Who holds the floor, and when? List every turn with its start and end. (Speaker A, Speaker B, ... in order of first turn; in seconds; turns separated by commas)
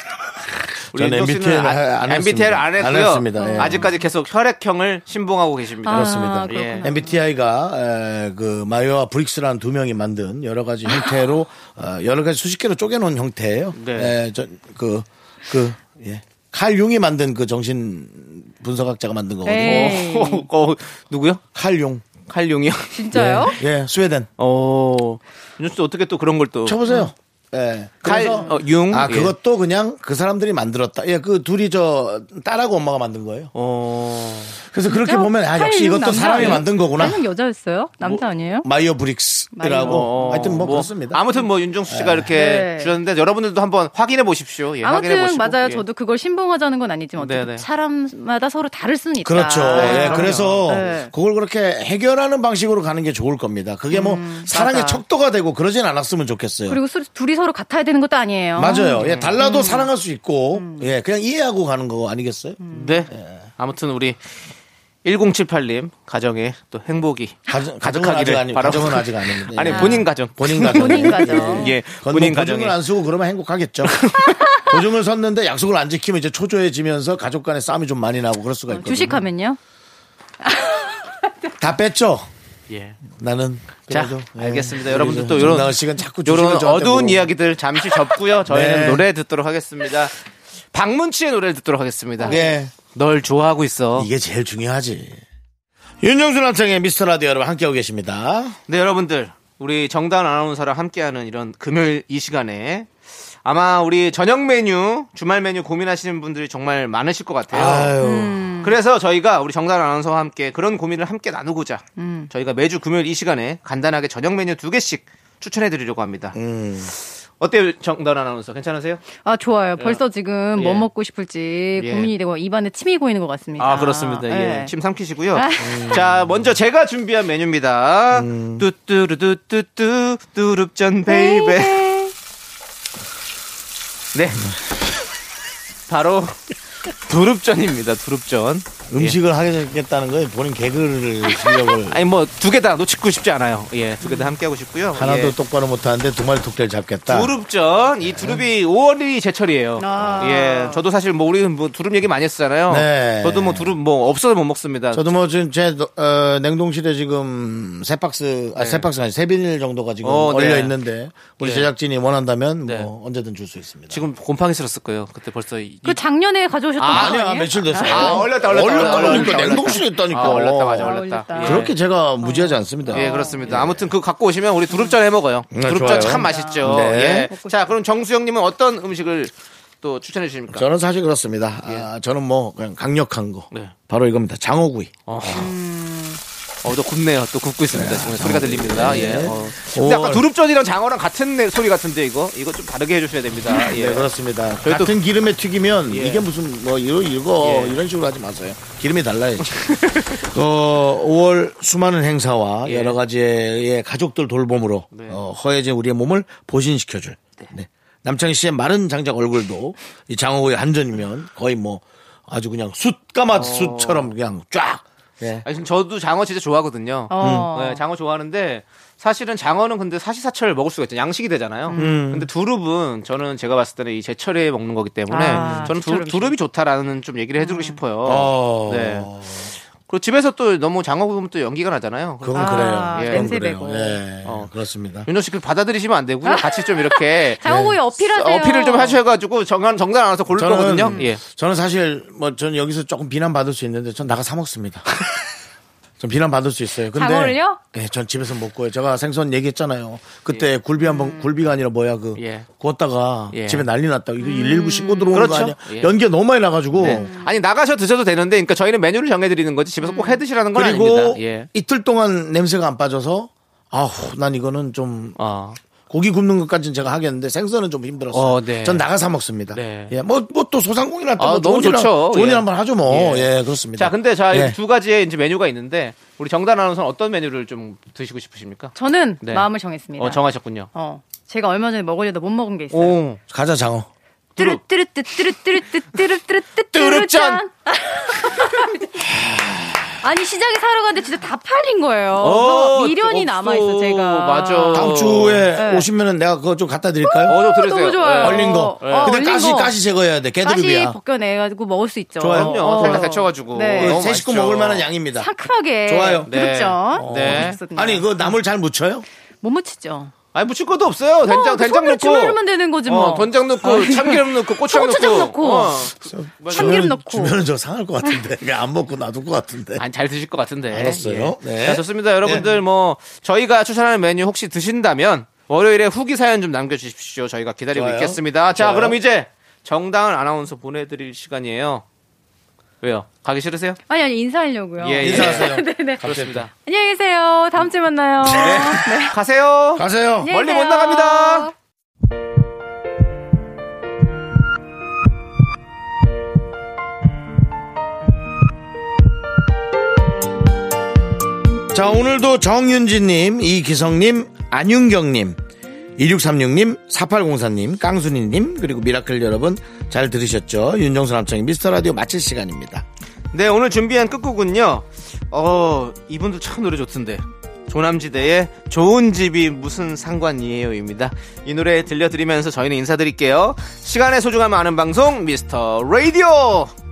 Speaker A: 0.9-3.9, Speaker B: 0.9-6.9, Speaker C: 3.4-4.0, Speaker C: 5.8-7.2, Speaker A: 5.9-20.0, Speaker B: 13.7-14.2, Speaker C: 19.4-20.5, Speaker B: 19.5-21.4, Speaker A: 21.5-22.1, Speaker B: 22.3-23.1, Speaker C: 22.9-23.6, Speaker A: 23.1-24.3, Speaker B: 24.4-26.8, Speaker A: 26.6-33.5, Speaker C: 26.9-27.1, Speaker B: 28.0-29.3, Speaker C: 28.1-28.6, Speaker B: 33.5-34.6, Speaker A: 34.6-37.2, Speaker C: 34.9-38.7, Speaker A: 38.1-41.2, Speaker C: 39.5-41.5, Speaker B: 39.8-45.8, Speaker A: 41.9-42.3, Speaker C: 42.3-42.9, Speaker C: 44.8-51.1, Speaker B: 47.2-47.6, Speaker A: 49.2-56.8, Speaker B: 49.6-51.0, Speaker C: 53.9-55.0, Speaker C: 56.7-59.9, Speaker A: 58.5-63.4, Speaker B: 59.0-59.4, Speaker C: 60.5-60.9, Speaker C: 62.6-63.0, Speaker B: 62.7-64.2, Speaker B: 65.0-72.8, Speaker A: 67.5-79.2, Speaker C: 69.7-71.8, Speaker B: 73.8-74.5, Speaker C: 78.7-79.6, Speaker C: 80.4-81.3, Speaker A: 81.6-82.3, Speaker B: 82.7-83.0, Speaker A: 83.2-87.3, Speaker B: 83.9-90.1, Speaker A: 88.5-89.0, Speaker B: 90.7-94.1, Speaker C: 92.2-92.5, Speaker A: 92.2-92.7, Speaker A: 94.0-95.2, Speaker A: 96.0-98.6, Speaker B: 98.7-102.9, Speaker B: 103.4-108.0, Speaker A: 107.5-108.5, Speaker C: 108.0-108.8, Speaker B: 108.6-116.4, Speaker C: 112.0-112.3, Speaker A: 116.3-116.9, Speaker B: 116.9-119.0, Speaker C: 119.2-124.7, Speaker B: 119.8-120.0, Speaker B: 120.5-120.9, Speaker B: 121.8-122.1, Speaker B: 123.6-131.9, Speaker C: 125.3-126.0, Speaker A: 125.6-126.4, Speaker A: 128.1-128.7, Speaker C: 131.1-132.1, Speaker B: 134.1-134.5, Speaker B: 135.9-136.4, Speaker B: 137.1-139.2, Speaker A: 138.9-142.0, Speaker B: 141.9-145.3, Speaker C: 144.0-144.4, Speaker A: 144.9-147.3, Speaker B: 147.1-155.1, Speaker A: 148.0-148.4, Speaker C: 149.8-150.8, Speaker A: 152.7-153.7, Speaker A: 154.9-164.1, Speaker B: 158.5-158.9, Speaker B: 160.0-160.8, Speaker B: 161.4-161.7, Speaker B: 163.9-166.0, Speaker C: 165.8-173.7, Speaker B: 166.8-167.2, Speaker A: 166.9-173.9, Speaker B: 167.8-171.7, Speaker B: 172.9-180.7, Speaker C: 174.7-174.9, Speaker A: 175.5-177.3, Speaker C: 175.7-177.8, Speaker A: 180.5-184.9, Speaker B: 185.1-185.5, Speaker C: 185.3-186.2, Speaker B: 186.6-194.1, Speaker A: 187.7-190.2, Speaker A: 193.5-215.4, Speaker B: 194.6-194.9, Speaker B: 195.9-196.3, Speaker B: 197.4-197.8, Speaker B: 199.5-200.2, Speaker B: 202.6-203.0, Speaker B: 204.9-205.2, Speaker B: 213.3-214.1, Speaker B: 215.4-229.1, Speaker C: 217.1-217.8, Speaker A: 217.2-217.5, Speaker C: 221.7-222.1, Speaker A: 221.8-222.3, Speaker C: 225.1-226.3, Speaker A: 225.3-225.7, Speaker C: 227.4-227.8, Speaker A: 228.0-229.5, Speaker B: 229.9-233.3, Speaker A: 232.2-235.1, Speaker C: 232.3-234.0, Speaker B: 235.0-237.4, Speaker C: 236.2-239.0, Speaker A: 237.4-237.8, Speaker B: 238.0-241.2, Speaker A: 240.3-244.9, Speaker A: 246.0-257.1, Speaker C: 246.9-247.6, Speaker C: 250.8-251.3, Speaker B: 252.2-252.5, Speaker B: 253.3-253.7, Speaker C: 254.2-255.3, Speaker B: 255.1-255.9, Speaker B: 256.8-261.5, Speaker C: 256.8-257.3, Speaker C: 259.8-260.2, Speaker A: 260.5-265.2, Speaker B: 265.2-265.6, Speaker A: 265.9-274.6, Speaker B: 268.1-268.9, Speaker B: 269.5-269.9, Speaker B: 271.2-280.7, Speaker C: 278.7-280.2, Speaker C: 280.7-283.0, Speaker B: 282.7-283.2, Speaker A: 283.3-283.9, Speaker C: 284.4-289.1, Speaker B: 286.7-287.4, Speaker B: 288.3-288.6, Speaker A: 289.1-289.9, Speaker C: 290.0-295.0, Speaker B: 292.1-295.4, Speaker A: 294.7-297.4, Speaker C: 295.5-295.9, Speaker C: 297.0-299.7, Speaker B: 297.2-299.2, Speaker A: 298.2-301.0, Speaker C: 300.4-304.0, Speaker A: 302.2-303.1, Speaker B: 302.3-304.9, Speaker A: 303.6-305.3, Speaker C: 305.1-308.3, Speaker A: 305.9-306.3, Speaker B: 306.2-307.6, Speaker A: 306.9-309.1, Speaker C: 309.4-310.1, Speaker B: 310.3-316.9, Speaker C: 311.2-317.4, Speaker A: 316.0-319.8, Speaker B: 319.8-331.8, Speaker A: 320.7-322.4, Speaker A: 327.7-329.0, Speaker B: 332.8-333.8, Speaker C: 333.9-339.2, Speaker B: 334.8-336.5, Speaker A: 335.0-336.4, Speaker B: 338.2-341.5, Speaker A: 339.8-340.3, Speaker C: 340.2-341.5, Speaker A: 351.7-355.4, Speaker A: 356.0-362.8, Speaker B: 363.3-376.7